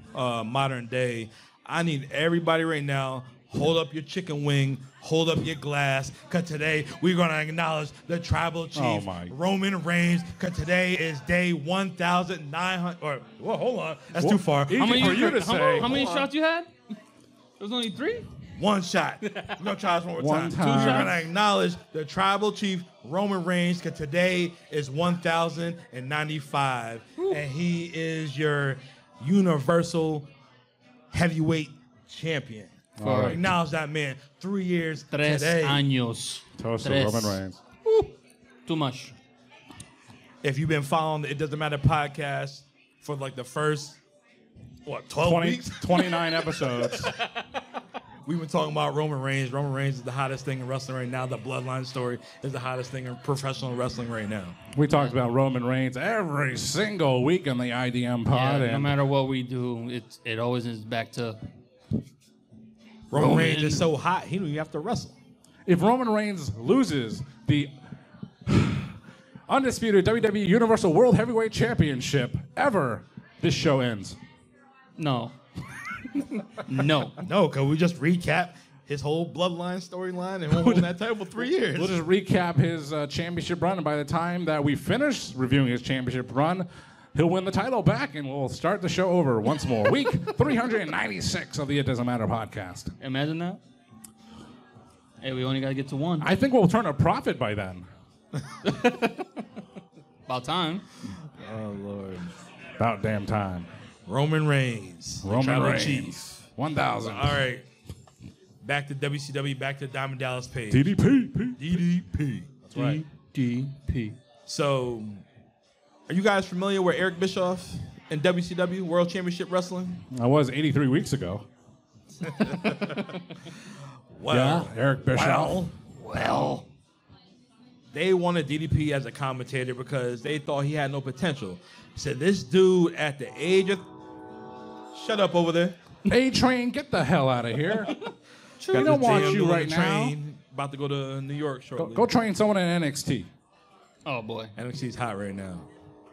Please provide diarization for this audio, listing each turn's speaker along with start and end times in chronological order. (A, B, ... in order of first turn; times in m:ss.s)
0:00.1-0:16.3 A
0:08.7-0:09.3 B
0:14.1-0:16.0 B
0:14.8-0:16.7 C
0:17.6-0:18.3 C
0:18.6-0:30.3 A
0:19.2-0:19.6 C
0:20.2-0:21.2 B
0:20.5-0:21.2 C
0:31.1-0:35.9 A
0:33.0-0:33.5 B
0:33.0-0:33.4 C
0:35.1-0:38.1 C
0:36.6-0:37.6 B
0:38.6-0:39.1 C
0:40.4-0:44.0 A
0:44.8-0:47.1 A
0:45.2-0:47.1 B
0:48.2-0:54.6 A
0:54.7-0:59.0 B
0:54.9-0:55.2 C
0:58.3-1:01.4 C
1:03.1-1:05.1 A
1:03.1-1:03.9 C
1:05.6-1:07.7 B
1:08.4-1:14.2 B
1:15.0-1:15.3 C
1:16.5-1:17.2 C
1:17.2-1:21.9 A
1:20.5-1:20.9 B
1:21.7-1:32.9 B
1:33.0-1:33.6 C
1:35.2-1:36.3 C
1:36.2-1:37.8 B
1:38.6-1:39.2 C
1:40.3-1:40.8 C
1:41.4-1:42.3 A
1:42.8-1:43.7 B
1:44.1-1:46.2 A
1:45.2-1:47.4 B
1:47.0-1:47.6 A
1:48.6-1:50.9 A
1:50.7-1:51.8 B
1:51.6-1:53.0 A
1:52.7-1:54.2 C
1:54.5-1:55.2 A
1:56.1-2:00.0 A
2:00.1-2:01.5 B
2:02.2-2:03.4 C
2:02.4-2:03.0 A
2:04.1-2:05.7 A
2:04.3-2:05.7 B
2:06.0-2:06.6 C
2:07.9-2:13.8 A
2:14.9-2:15.8 A
2:16.0-2:18.0 B
2:18.6-2:19.4 C
2:18.7-2:22.1 A
2:18.7-2:20.2 B
2:21.8-2:23.3 B
2:24.0-2:24.5 C
2:24.6-2:25.7 A